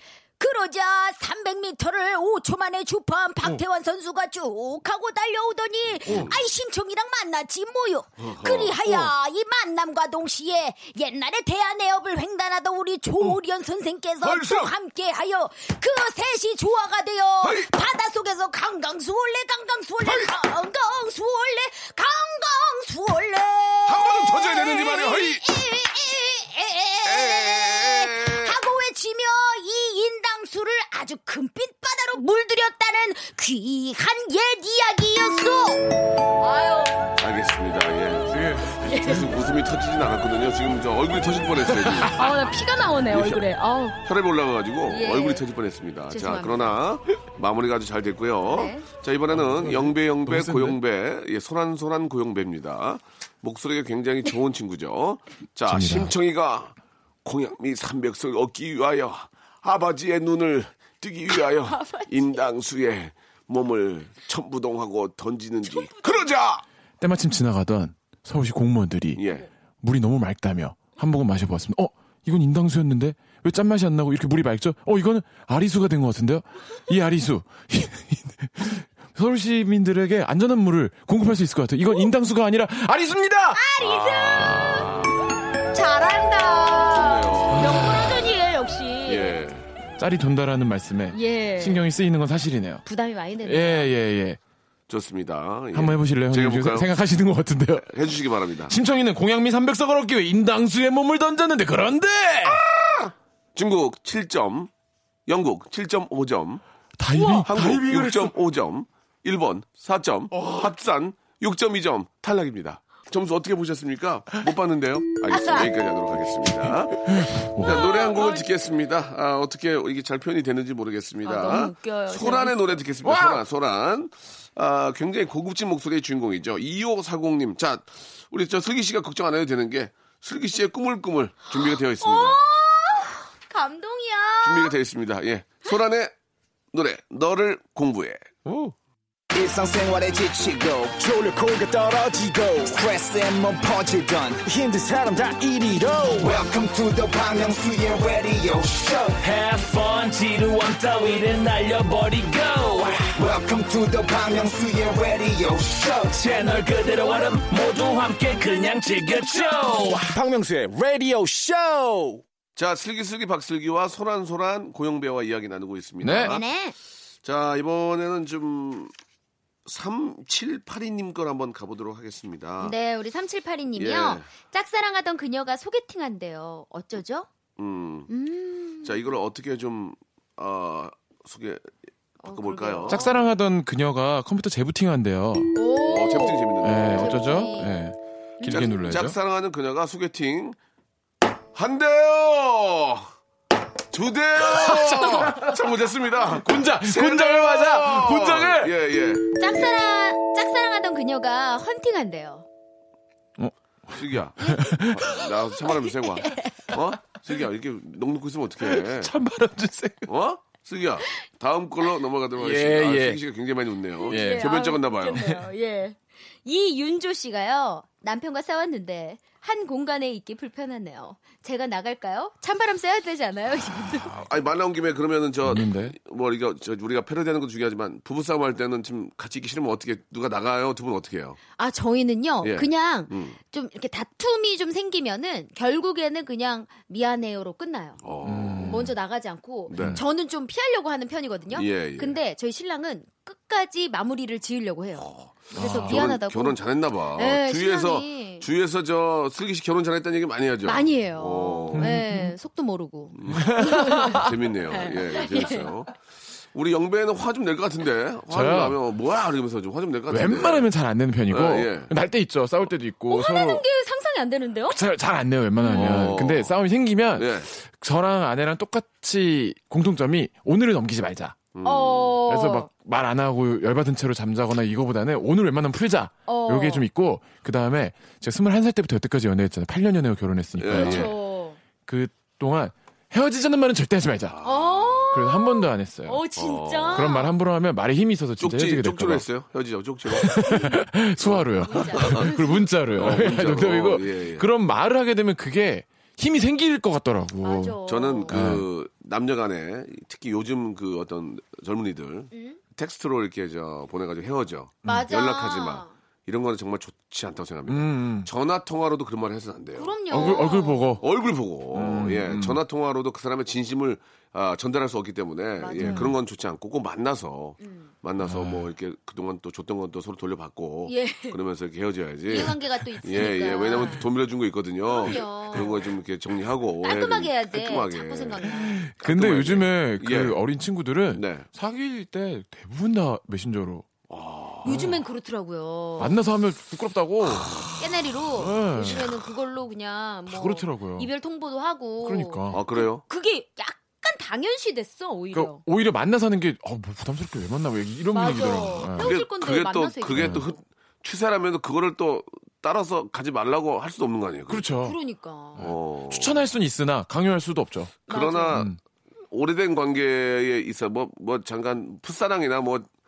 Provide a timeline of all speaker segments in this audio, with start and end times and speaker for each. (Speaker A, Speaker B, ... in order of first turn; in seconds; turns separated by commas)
Speaker A: 0.4-35.9, Speaker B: 6.1-6.4, Speaker B: 8.2-9.1, Speaker B: 14.2-14.7, Speaker B: 23.9-25.4, Speaker B: 27.1-28.6, Speaker A: 36.4-37.0, Speaker B: 37.2-42.3, Speaker C: 38.3-39.2, Speaker A: 38.8-39.3, Speaker C: 41.7-42.1, Speaker A: 42.0-44.0, Speaker B: 43.1-43.4, Speaker B: 44.0-56.7, Speaker A: 44.9-45.4, Speaker A: 46.1-46.8, Speaker A: 48.5-48.9, Speaker C: 49.3-50.8, Speaker C: 55.7-56.1, Speaker B: 57.2-66.6, Speaker A: 61.3-62.4, Speaker A: 65.7-66.3, Speaker C: 67.0-69.2, Speaker B: 69.2-69.5, Speaker C: 69.8-83.6, Speaker A: 83.5-85.0, Speaker B: 83.8-85.2, Speaker A: 85.7-89.4, Speaker B: 86.9-88.2, Speaker C: 87.5-88.1, Speaker B: 89.1-89.7, Speaker C: 90.0-92.8, Speaker A: 91.1-91.8, Speaker A: 92.8-93.9, Speaker C: 93.5-94.4, Speaker B: 94.9-96.9, Speaker C: 95.7-98.0, Speaker B: 97.8-98.7, Speaker C: 98.7-102.7, Speaker B: 103.5-104.7, Speaker B: 105.3-106.6, Speaker C: 107.0-108.3, Speaker A: 107.1-107.5, Speaker B: 107.4-132.4, Speaker A: 115.3-115.7, Speaker C: 117.1-117.9, Speaker A: 117.6-118.5, Speaker A: 121.2-122.8, Speaker C: 123.0-123.4, Speaker A: 131.6-134.7, Speaker B: 134.4-136.1, Speaker B: 136.7-138.2, Speaker C: 138.5-138.7, Speaker D: 139.3-149.2, Speaker E: 149.2-153.1, Speaker D: 153.2-156.2, Speaker E: 156.1-160.2, Speaker D: 160.1-162.2, Speaker B: 162.6-166.4, Speaker C: 166.0-166.4, Speaker A: 166.2-166.8, Speaker B: 167.2-168.9, Speaker B: 169.7-172.7, Speaker A: 172.6-177.3, Speaker B: 173.8-174.3, Speaker B: 177.6-178.1, Speaker A: 178.1-179.1, Speaker B: 178.8-181.7, Speaker A: 182.2-183.3, Speaker B: 182.3-183.1, Speaker C: 182.9-185.5, Speaker A: 185.6-187.8, Speaker B: 185.8-187.5, Speaker C: 186.6-189.2, Speaker A: 188.4-188.7, Speaker B: 188.5-190.6, Speaker B: 191.6-193.1, Speaker B: 193.9-199.4, Speaker C: 194.6-195.5, Speaker C: 196.4-198.7, Speaker A: 199.4-202.4, Speaker C: 203.4-205.3, Speaker B: 203.9-209.1, Speaker A: 206.2-206.5, Speaker C: 208.6-210.1, Speaker B: 210.1-215.4, Speaker C: 212.4-213.2, Speaker A: 214.0-224.3, Speaker C: 214.1-214.6, Speaker B: 224.2-231.4, Speaker C: 225.4-226.0, Speaker A: 231.6-238.0, Speaker B: 232.4-233.4, Speaker B: 238.0-238.9, Speaker C: 238.2-238.9, Speaker A: 238.6-246.6, Speaker B: 239.7-240.0, Speaker C: 239.8-240.0, Speaker B: 241.5-242.2, Speaker B: 245.0-252.0, Speaker C: 245.5-246.2, Speaker A: 247.2-248.5, Speaker A: 250.6-255.7, Speaker C: 251.7-252.3, Speaker B: 253.2-256.0, Speaker C: 253.3-254.2, Speaker B: 256.5-260.7, Speaker C: 258.3-258.8, Speaker C: 260.1-263.6, Speaker B: 261.3-261.9, Speaker A: 263.1-264.8, Speaker C: 264.7-271.4, Speaker A: 265.6-266.2, Speaker B: 265.7-266.5, Speaker B: 267.1-267.5, Speaker B: 271.6-272.2, Speaker A: 271.6-272.7, Speaker C: 272.3-281.2, Speaker A: 276.3-276.9, Speaker B: 280.6-281.1, Speaker A: 280.7-281.6, Speaker C: 281.9-284.4, Speaker B: 284.3-285.0, Speaker A: 284.4-287.3, Speaker C: 285.1-286.2, Speaker B: 286.3-287.1, Speaker C: 286.9-289.2, Speaker B: 288.4-294.5, Speaker C: 290.1-298.7, Speaker A: 290.4-290.8, Speaker A: 291.6-292.7, Speaker A: 297.4-298.4, Speaker B: 297.9-310.5, Speaker A: 302.3-302.6, Speaker A: 304.8-305.9, Speaker C: 307.7-308.3, Speaker A: 309.8-311.0, Speaker C: 310.1-311.0, Speaker B: 311.0-328.5, Speaker C: 311.7-312.6, Speaker A: 315.6-316.1, Speaker C: 315.8-316.1, Speaker A: 317.6-317.9, Speaker C: 318.2-318.7, Speaker A: 320.9-321.4, Speaker A: 322.3-324.1, Speaker C: 323.7-324.0, Speaker A: 324.9-325.7, Speaker A: 326.8-328.8, Speaker C: 328.5-333.9, Speaker B: 329.0-330.4, Speaker B: 331.1-331.5, Speaker B: 334.1-334.8, Speaker A: 334.6-336.2, Speaker C: 334.6-335.0, Speaker C: 336.0-337.6, Speaker B: 337.4-337.7, Speaker A: 337.7-345.6, Speaker C: 338.4-339.2, Speaker C: 340.3-341.1, Speaker C: 342.0-342.6, Speaker B: 342.5-343.0, Speaker C: 345.3-349.1, Speaker A: 348.1-350.6, Speaker B: 349.0-354.7, Speaker C: 350.1-350.4, Speaker C: 354.5-355.0, Speaker A: 354.8-355.6, Speaker C: 355.6-358.0, Speaker B: 355.6-356.4, Speaker B: 358.1-358.8, Speaker A: 358.1-358.6, Speaker B: 359.3-362.9